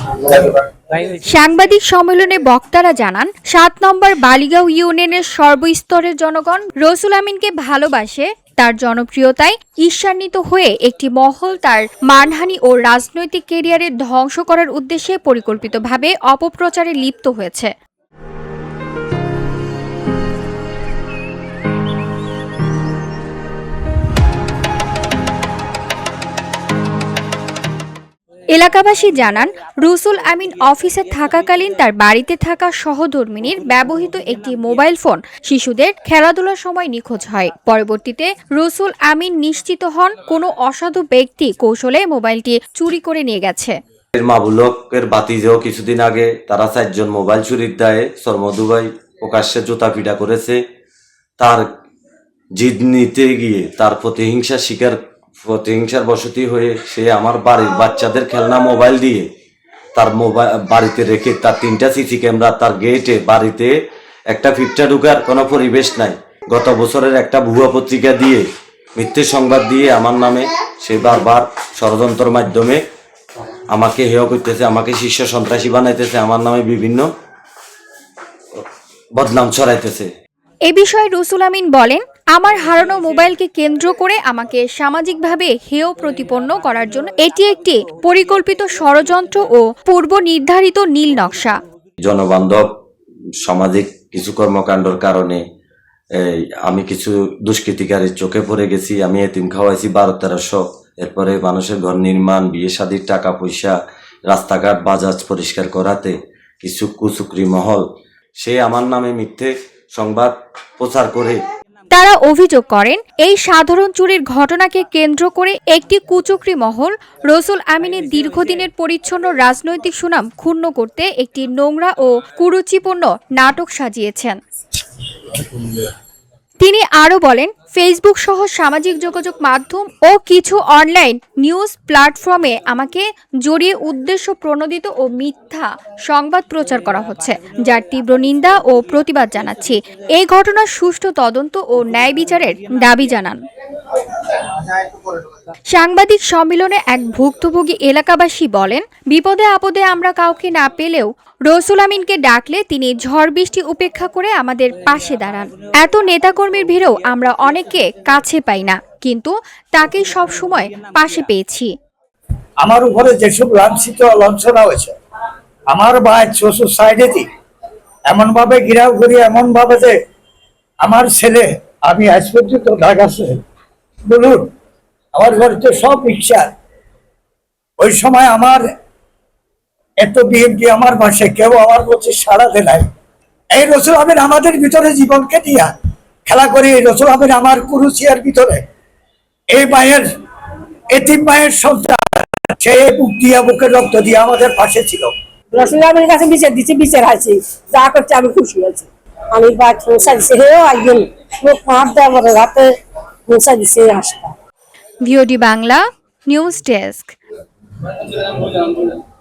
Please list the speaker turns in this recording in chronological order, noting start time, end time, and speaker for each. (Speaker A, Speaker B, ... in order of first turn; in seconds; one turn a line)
Speaker A: 1.0-17.7
Speaker A: 28.5-43.7
Speaker B: 44.2-50.6
Speaker B: 51.4-51.6
Speaker B: 52.5-59.3
Speaker B: 59.9-63.7
Speaker B: 64.3-72.8
Speaker B: 73.7-77.1
Speaker B: 78.5-80.1
Speaker A: 80.6-91.5
Speaker B: 92.0-92.7
Speaker B: 93.4-95.4
Speaker B: 96.1-103.7
Speaker B: 104.3-107.8
Speaker B: 108.4-111.4
Speaker A: 111.9-124.4
Speaker A: 126.6-143.4
Speaker A: 145.7-161.7
Speaker C: 162.6-164.9
Speaker C: 165.7-167.2
Speaker C: 168.1-169.9
Speaker C: 170.8-173.4
Speaker C: 174.1-174.5
Speaker C: 175.1-176.5
Speaker C: 177.8-178.6
Speaker C: 180.0-182.8
Speaker C: 183.5-185.7
Speaker C: 186.2-188.6
Speaker C: 189.5-190.1
Speaker C: 190.9-195.1
Speaker D: 195.5-202.7
Speaker D: 203.3-204.3
Speaker A: 205.0-207.1
Speaker D: 208.0-208.9